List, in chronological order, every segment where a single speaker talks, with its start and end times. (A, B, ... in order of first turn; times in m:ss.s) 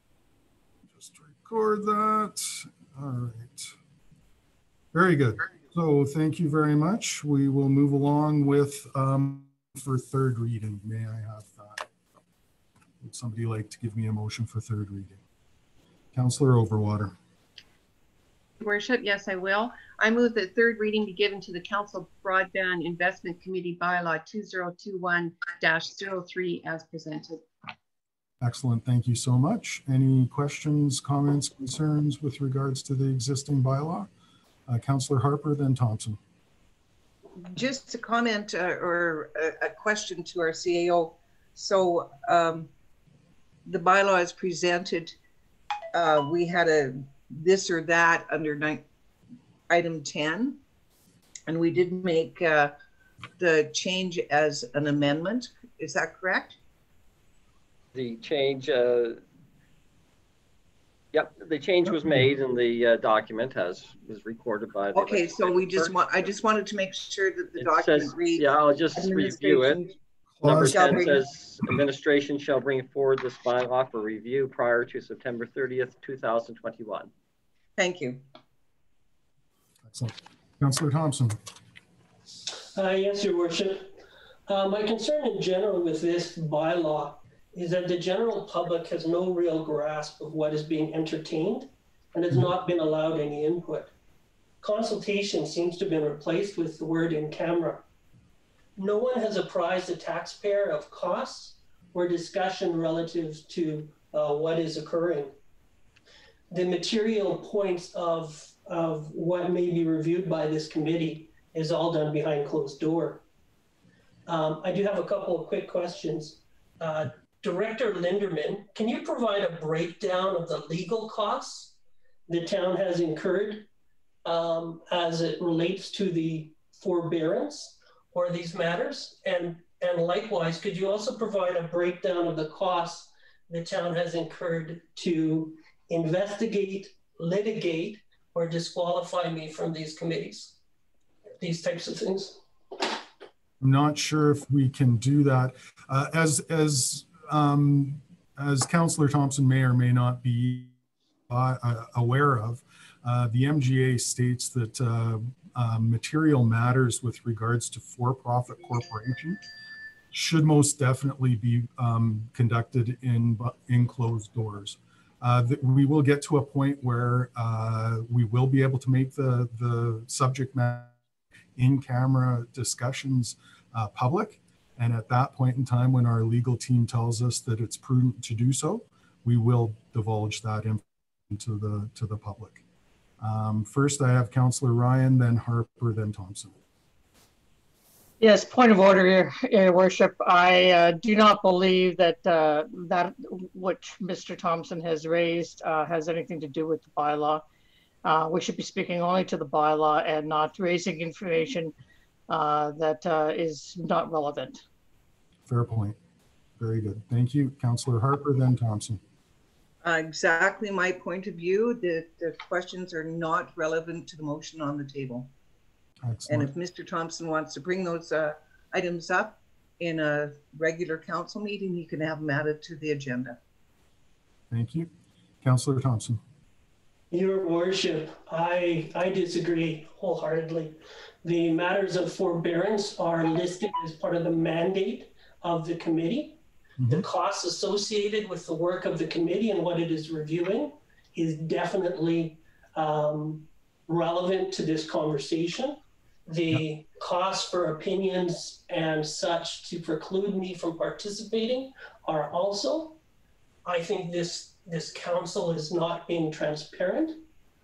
0:00.9-0:03.7 A
0:04.9-0:11.9 A
0:13.0-0:15.2 A
0:16.1-0:17.2 A
0:18.6-0:27.4 B
0:28.4-0:34.1 A
0:34.7-0:36.2 A
0:37.4-0:42.7 C
0:43.6-0:45.2 C
0:45.9-0:48.8 C
0:49.7-0:50.6 C
0:51.5-0:52.7 C
0:53.4-0:56.6 C
0:57.9-0:59.2 D
1:01.1-1:05.9 D
1:01.8-1:02.3 A
1:04.9-1:09.9 C
1:07.6-1:09.9 D
1:10.4-1:11.1 A
1:10.4-1:17.1 D
1:10.6-1:11.2 C
1:17.8-1:18.2 C
1:19.8-1:21.4 A
1:22.8-1:23.9 E
1:24.5-1:33.9 E
1:34.6-1:37.8 E
1:38.8-1:45.3 E
1:46.5-1:53.2 E
1:54.3-2:01.8 E
2:02.3-2:03.7 E
2:04.2-2:20.6 E
2:21.4-2:22.4 E
2:23.6-2:30.7 A
2:31.3-2:39.4 A
2:40.1-2:51.0 A
2:51.6-3:02.6 A
3:03.2-3:06.6 A
3:08.2-3:17.4 F
3:18.0-3:21.7 F
3:22.3-3:24.6 F
3:25.5-3:26.0 A
3:26.6-3:29.0 A
3:29.8-3:35.3 C
3:36.0-3:36.5 A
3:36.3-3:43.4 C
3:44.5-3:44.9 A
3:45.4-3:46.2 A
3:47.1-4:13.0 E
3:56.8-3:57.0 A
4:13.6-4:17.2 E